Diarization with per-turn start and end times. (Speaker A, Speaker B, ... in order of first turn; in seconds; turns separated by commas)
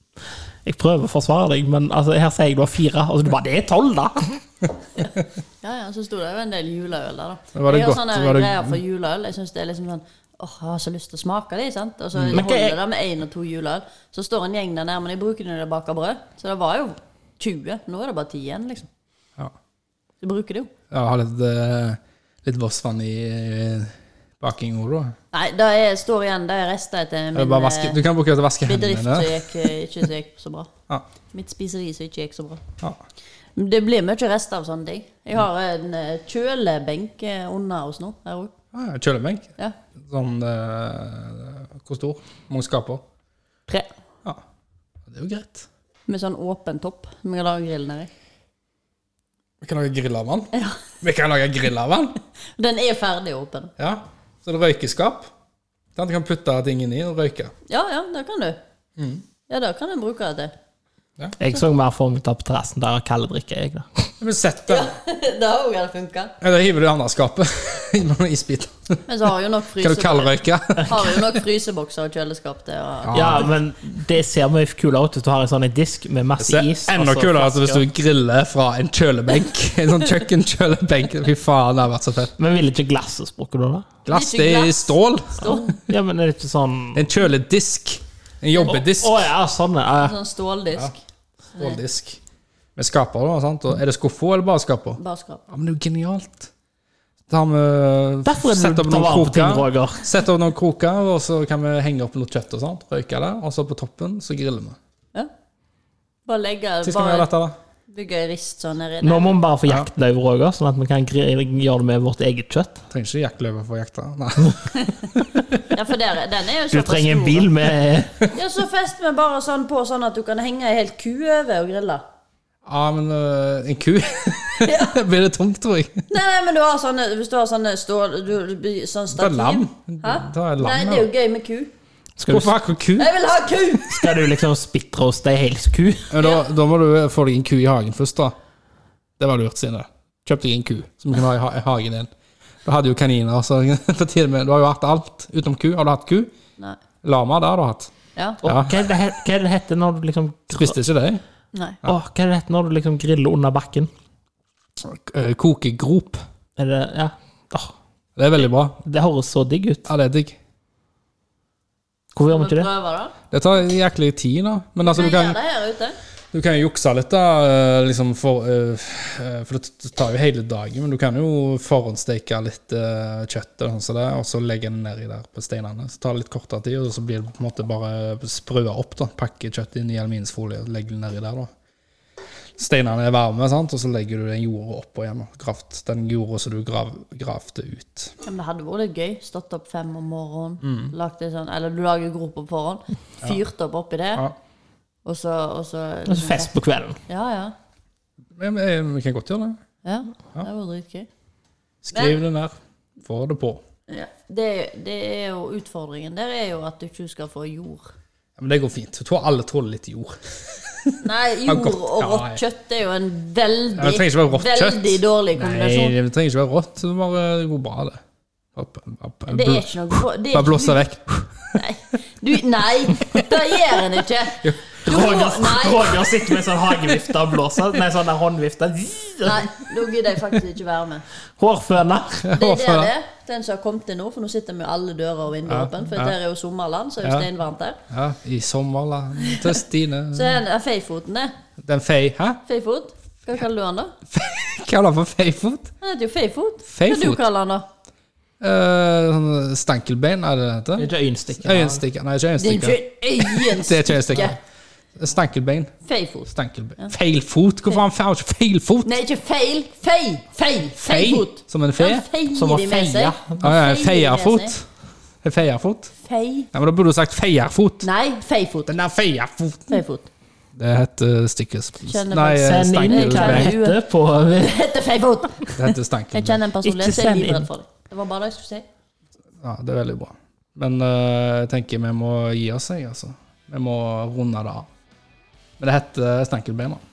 Speaker A: 0.6-4.4, Speaker B: 5.6-18.9, Speaker C: 7.5-8.8, Speaker C: 12.1-12.4, Speaker A: 12.3-12.8, Speaker B: 20.2-20.7, Speaker C: 20.9-25.1, Speaker B: 25.3-28.0, Speaker C: 27.3-29.7, Speaker B: 28.6-30.7, Speaker B: 31.3-32.6, Speaker B: 33.5-38.5, Speaker C: 38.7-43.0, Speaker C: 45.1-45.6, Speaker B: 46.1-48.1, Speaker C: 49.6-52.1, Speaker B: 50.5-50.8, Speaker B: 52.6-53.7, Speaker C: 53.8-55.3, Speaker C: 55.9-57.5, Speaker B: 57.7-58.6, Speaker C: 59.0-59.2, Speaker B: 59.5-60.5, Speaker A: 61.4-64.1, Speaker C: 64.2-64.9, Speaker B: 64.7-66.3, Speaker C: 66.4-69.0, Speaker B: 69.1-73.5, Speaker C: 69.8-71.4, Speaker C: 73.0-73.5, Speaker A: 73.1-77.8, Speaker C: 76.4-82.3, Speaker A: 82.4-83.9, Speaker C: 84.0-85.7, Speaker B: 84.1-85.7, Speaker A: 85.4-87.1, Speaker C: 86.9-89.3, Speaker A: 88.7-90.2, Speaker B: 90.0-91.0, Speaker C: 91.6-92.2, Speaker C: 92.8-96.5, Speaker B: 95.0-95.4, Speaker C: 97.3-104.8, Speaker A: 98.2-100.1, Speaker B: 106.2-107.3, Speaker C: 106.8-107.5, Speaker B: 107.9-109.4, Speaker A: 109.0-112.8, Speaker C: 112.9-114.9, Speaker B: 115.7-117.5, Speaker A: 116.7-118.2, Speaker B: 118.3-122.0, Speaker C: 122.6-126.0, Speaker B: 124.6-124.9, Speaker B: 126.1-131.7, Speaker C: 129.1-131.1, Speaker A: 132.2-132.5, Speaker C: 132.3-133.1, Speaker B: 133.0-134.1, Speaker A: 133.8-136.1, Speaker C: 136.1-138.3, Speaker B: 136.2-136.4, Speaker C: 139.2-142.1, Speaker C: 142.6-146.3, Speaker C: 147.0-147.9, Speaker B: 148.2-148.4, Speaker C: 148.4-148.8, Speaker A: 148.4-150.8, Speaker C: 150.5-151.2, Speaker B: 151.5-151.8, Speaker A: 151.8-153.9, Speaker C: 154.8-156.2, Speaker A: 156.6-157.7, Speaker C: 158.2-158.8, Speaker A: 158.8-159.9, Speaker C: 159.8-160.4, Speaker A: 162.1-162.7, Speaker B: 162.3-163.1, Speaker C: 163.3-165.4, Speaker B: 164.8-165.9, Speaker C: 166.3-181.5, Speaker C: 182.6-188.1, Speaker B: 188.2-194.3, Speaker C: 190.6-190.9, Speaker B: 195.0-196.6, Speaker A: 196.1-197.0, Speaker B: 197.1-197.5, Speaker C: 198.3-199.6, Speaker B: 199.8-201.1, Speaker C: 201.8-203.6, Speaker B: 201.9-202.2, Speaker B: 203.9-207.9, Speaker C: 208.4-212.4, Speaker B: 211.0-215.9, Speaker C: 213.7-218.0, Speaker C: 218.5-221.6, Speaker B: 219.3-220.8, Speaker B: 221.5-226.0, Speaker A: 224.8-229.7, Speaker B: 229.2-231.0, Speaker A: 231.4-232.2, Speaker C: 232.2-232.9, Speaker B: 232.3-237.8, Speaker C: 235.4-236.2, Speaker C: 237.0-237.3, Speaker C: 237.9-240.4, Speaker B: 239.2-239.5, Speaker B: 240.1-241.3, Speaker C: 241.6-242.4, Speaker B: 242.4-243.9, Speaker C: 244.1-245.7, Speaker B: 245.8-247.7, Speaker C: 246.7-247.2, Speaker C: 248.4-254.3, Speaker A: 250.8-251.8, Speaker B: 252.4-254.3, Speaker C: 254.9-255.7, Speaker B: 255.8-256.9, Speaker C: 256.3-258.9, Speaker B: 258.8-264.5, Speaker C: 260.8-262.1, Speaker A: 262.3-263.4, Speaker C: 263.4-264.7, Speaker C: 265.2-265.9, Speaker B: 266.0-266.5, Speaker C: 266.5-267.9, Speaker B: 267.8-268.7, Speaker C: 268.7-269.8, Speaker B: 269.7-270.1, Speaker C: 270.6-273.5, Speaker B: 271.9-278.6, Speaker A: 272.3-274.6, Speaker C: 275.6-276.4, Speaker A: 276.6-277.5, Speaker C: 279.4-284.7, Speaker C: 285.6-286.8